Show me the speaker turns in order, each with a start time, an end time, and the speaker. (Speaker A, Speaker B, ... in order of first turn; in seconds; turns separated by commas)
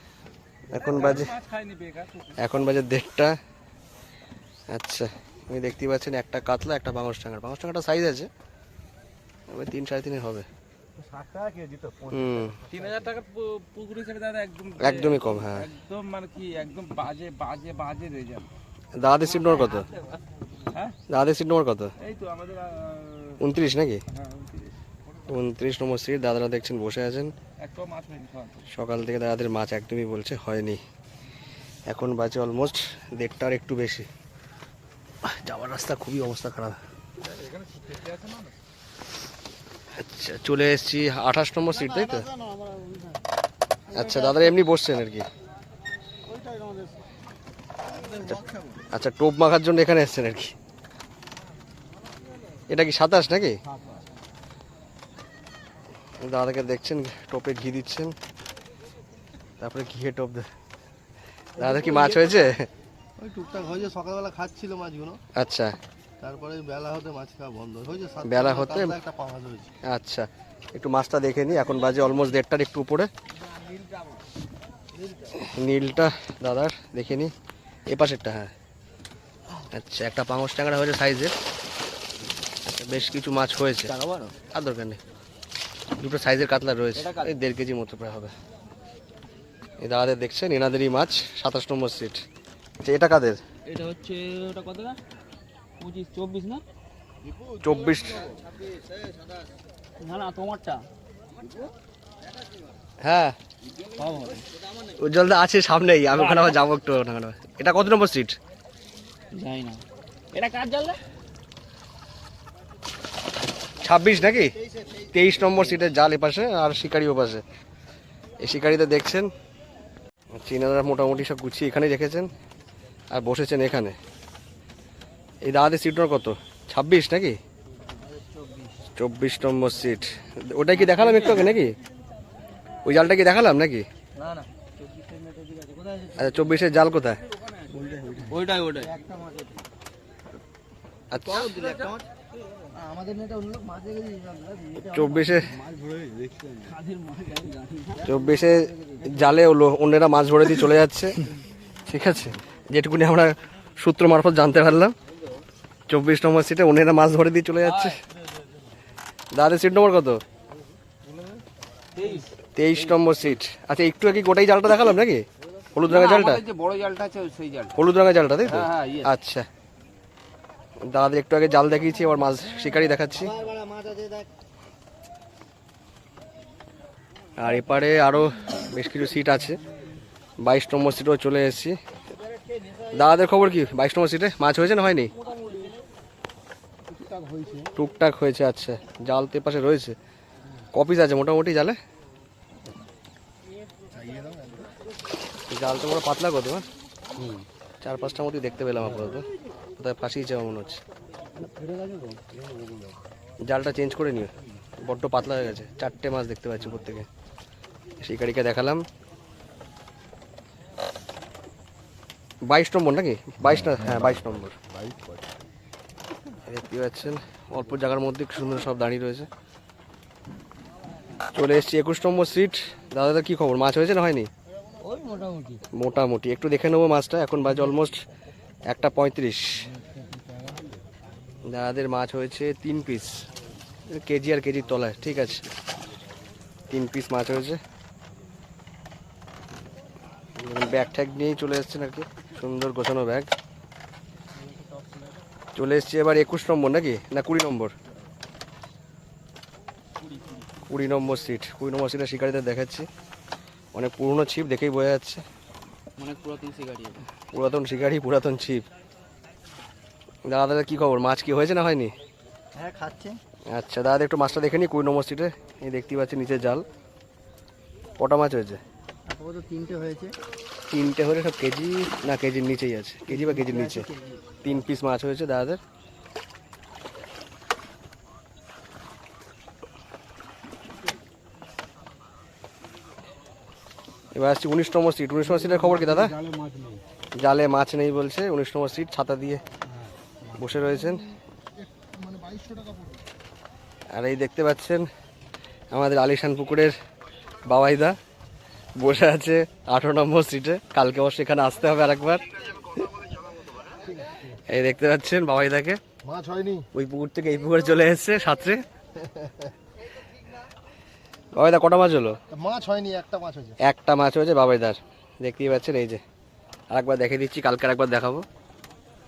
Speaker A: 0.7-1.4, Speaker B: 1.0-2.3, Speaker A: 2.4-3.4, Speaker A: 4.7-8.3, Speaker A: 9.5-10.5, Speaker C: 11.0-13.1, Speaker A: 12.1-12.6, Speaker B: 12.7-18.5, Speaker A: 14.8-15.7, Speaker A: 19.0-19.9, Speaker A: 21.1-21.9, Speaker B: 22.0-23.4, Speaker A: 23.4-24.0, Speaker B: 24.1-24.7, Speaker A: 25.3-27.3, Speaker B: 27.6-28.6, Speaker A: 28.7-30.8, Speaker A: 31.9-34.1, Speaker A: 35.2-36.8, Speaker B: 37.2-38.5, Speaker A: 40.0-42.3, Speaker C: 42.5-43.0, Speaker A: 43.9-45.3, Speaker C: 46.3-46.9, Speaker A: 48.2-50.5, Speaker A: 52.7-53.6, Speaker A: 56.2-58.1, Speaker A: 59.6-60.5, Speaker A: 61.6-62.7, Speaker C: 61.6-62.4, Speaker C: 63.2-65.2, Speaker A: 65.3-65.8, Speaker C: 66.2-69.7, Speaker A: 68.2-69.0, Speaker A: 69.8-73.1, Speaker A: 75.3-77.3, Speaker A: 77.9-78.5, Speaker A: 79.7-81.4, Speaker A: 82.7-84.0, Speaker B: 84.0-84.3, Speaker A: 84.5-85.0, Speaker A: 86.0-88.3, Speaker B: 87.0-87.3, Speaker A: 89.8-92.2, Speaker A: 92.8-93.4, Speaker B: 93.7-95.0, Speaker B: 95.8-96.6, Speaker A: 97.6-98.3, Speaker B: 100.0-100.9, Speaker A: 103.0-103.3, Speaker B: 104.0-104.4, Speaker A: 105.0-108.4, Speaker B: 106.2-106.5, Speaker B: 109.3-111.0, Speaker A: 113.8-117.4, Speaker A: 118.4-119.3, Speaker A: 120.4-122.3, Speaker A: 123.1-124.0, Speaker A: 125.5-127.4, Speaker B: 128.4-128.7, Speaker A: 129.0-131.8, Speaker B: 130.9-131.3, Speaker A: 132.8-133.9, Speaker B: 134.2-136.0, Speaker A: 136.2-137.2, Speaker C: 137.9-138.4, Speaker B: 138.2-139.1, Speaker A: 141.1-141.6, Speaker B: 141.3-142.0, Speaker C: 141.5-142.0, Speaker C: 142.8-146.8, Speaker A: 144.8-145.5, Speaker B: 146.7-148.1, Speaker A: 148.0-151.2, Speaker A: 151.9-154.9, Speaker A: 155.9-158.0, Speaker B: 157.7-158.0, Speaker A: 159.3-160.2, Speaker B: 162.0-162.3, Speaker A: 162.6-166.4, Speaker B: 165.9-167.7, Speaker A: 167.8-169.5, Speaker B: 168.5-169.1, Speaker A: 170.9-173.4, Speaker C: 173.4-174.3, Speaker A: 177.4-179.6, Speaker A: 180.4-181.8, Speaker A: 182.9-185.1, Speaker C: 187.0-187.7, Speaker A: 187.8-190.0, Speaker A: 190.7-191.8, Speaker C: 194.0-194.7, Speaker A: 195.5-196.7, Speaker A: 197.8-199.2, Speaker A: 199.8-200.8, Speaker B: 201.5-202.2, Speaker A: 203.4-204.3, Speaker A: 204.8-207.1, Speaker A: 208.0-208.8, Speaker A: 212.5-214.6, Speaker A: 216.5-219.3, Speaker A: 221.3-224.3, Speaker B: 224.8-225.6, Speaker A: 225.7-228.0, Speaker A: 228.7-229.7, Speaker A: 231.5-233.2, Speaker A: 233.9-235.5, Speaker A: 236.7-237.6, Speaker A: 240.4-243.3, Speaker A: 245.6-247.7, Speaker B: 250.1-250.4, Speaker A: 250.7-252.9, Speaker A: 253.7-255.2, Speaker B: 256.0-257.1, Speaker A: 257.3-258.6, Speaker A: 260.3-261.9, Speaker C: 262.6-263.2, Speaker A: 263.5-266.6, Speaker A: 268.0-268.6, Speaker C: 269.1-270.1, Speaker A: 270.7-273.9, Speaker B: 273.6-274.1, Speaker A: 274.4-275.6, Speaker A: 284.1-286.2, Speaker C: 285.9-286.8, Speaker A: 287.2-289.4, Speaker A: 290.3-291.1, Speaker C: 291.9-293.0, Speaker A: 293.9-294.9, Speaker A: 295.7-296.8, Speaker A: 297.5-298.0, Speaker A: 298.8-302.2, Speaker C: 303.9-304.2, Speaker A: 304.4-305.8, Speaker C: 306.1-306.7, Speaker A: 306.7-308.6, Speaker A: 311.4-312.2, Speaker C: 312.3-313.6, Speaker A: 313.6-316.0, Speaker A: 316.7-318.2